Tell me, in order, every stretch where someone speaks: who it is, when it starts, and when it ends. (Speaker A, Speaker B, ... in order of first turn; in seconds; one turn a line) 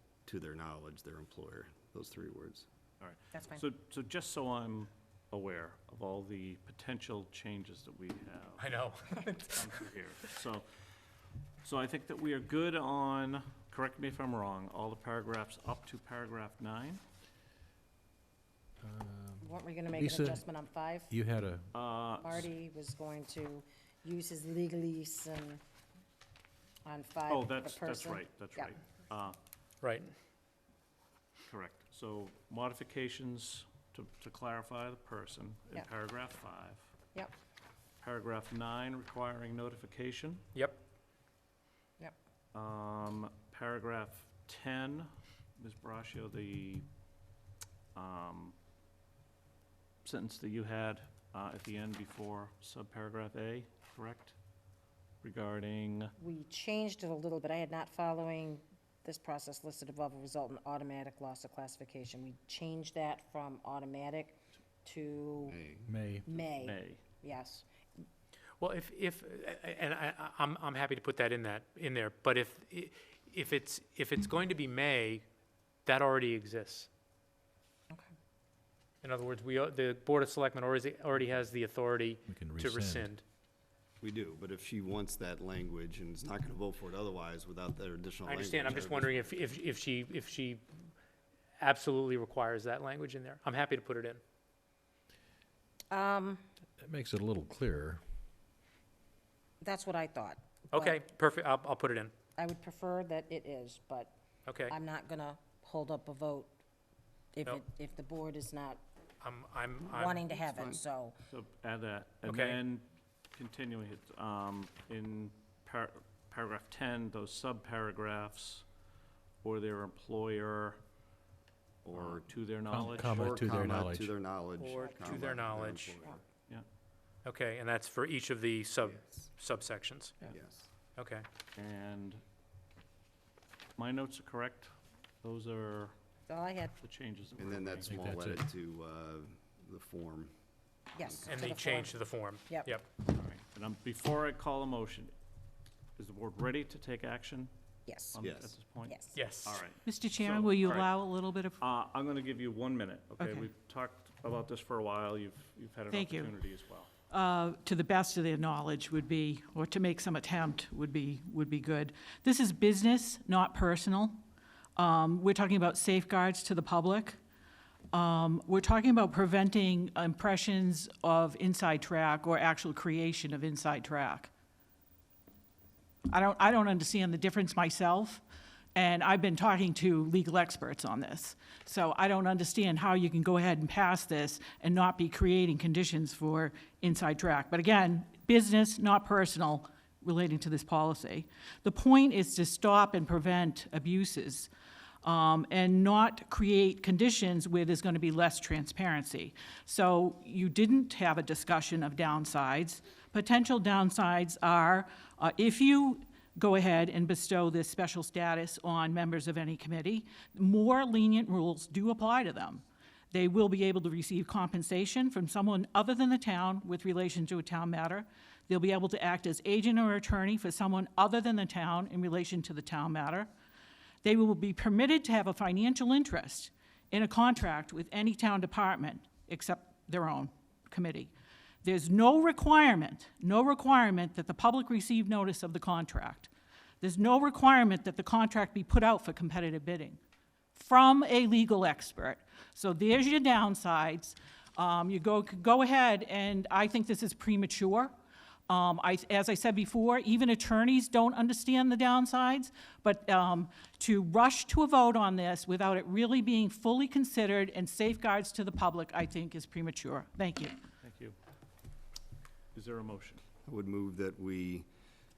Speaker A: 0.2-2.6
Speaker B: 3.0-10.7
Speaker C: 3.3-3.7
Speaker D: 8.6-9.8
Speaker B: 11.6-17.0
Speaker E: 18.8-20.4
Speaker C: 19.4-21.1
Speaker E: 21.1-21.7
Speaker B: 21.7-22.4
Speaker C: 22.2-25.6
Speaker C: 26.8-28.7
Speaker B: 27.3-29.4
Speaker D: 29.8-30.1
Speaker B: 31.4-36.9
Speaker B: 38.0-40.4
Speaker B: 42.5-46.8
Speaker B: 47.9-48.5
Speaker B: 50.0-54.3
Speaker B: 55.2-56.1
Speaker C: 56.2-65.6
Speaker A: 65.4-65.9
Speaker E: 65.8-66.2
Speaker C: 66.2-67.7
Speaker B: 66.5-67.0
Speaker D: 68.6-75.2
Speaker D: 75.8-76.9
Speaker D: 79.0-83.2
Speaker E: 82.3-83.1
Speaker A: 84.0-89.2
Speaker D: 88.2-90.6
Speaker D: 91.6-94.2
Speaker C: 95.9-96.4
Speaker E: 96.8-98.0
Speaker C: 99.6-101.0
Speaker D: 100.7-102.1
Speaker C: 102.4-104.1
Speaker D: 104.5-104.7
Speaker C: 104.7-106.5
Speaker C: 107.3-108.8
Speaker D: 109.2-110.2
Speaker C: 109.9-111.2
Speaker A: 110.3-110.8
Speaker B: 111.3-118.6
Speaker D: 112.2-112.6
Speaker B: 119.4-120.8
Speaker A: 121.8-122.3
Speaker B: 121.9-123.5
Speaker E: 122.7-124.1
Speaker A: 122.8-126.2
Speaker D: 124.6-126.1
Speaker D: 127.2-130.3
Speaker A: 130.2-130.7
Speaker D: 131.0-131.2
Speaker B: 131.6-132.2
Speaker B: 133.8-135.9
Speaker C: 136.3-136.7
Speaker B: 136.8-138.0
Speaker A: 137.4-140.3
Speaker E: 137.8-138.4
Speaker C: 140.9-142.7
Speaker D: 141.2-142.9
Speaker B: 143.1-145.1
Speaker B: 146.0-147.5
Speaker C: 147.8-148.2
Speaker B: 148.1-150.9
Speaker A: 148.2-148.5
Speaker C: 148.8-149.2
Speaker D: 149.1-149.6
Speaker F: 149.8-151.6
Speaker B: 151.6-156.9
Speaker F: 153.2-153.5
Speaker F: 155.9-156.3
Speaker F: 157.1-164.2
Speaker F: 164.8-167.2
Speaker F: 167.9-174.3
Speaker F: 176.1-178.2
Speaker F: 178.7-194.5
Speaker F: 195.0-223.3
Speaker F: 224.0-231.1
Speaker F: 231.6-236.3
Speaker F: 236.8-240.0
Speaker F: 240.5-247.9
Speaker F: 248.5-260.6
Speaker B: 260.8-261.1
Speaker B: 262.5-263.2
Speaker A: 263.4-264.7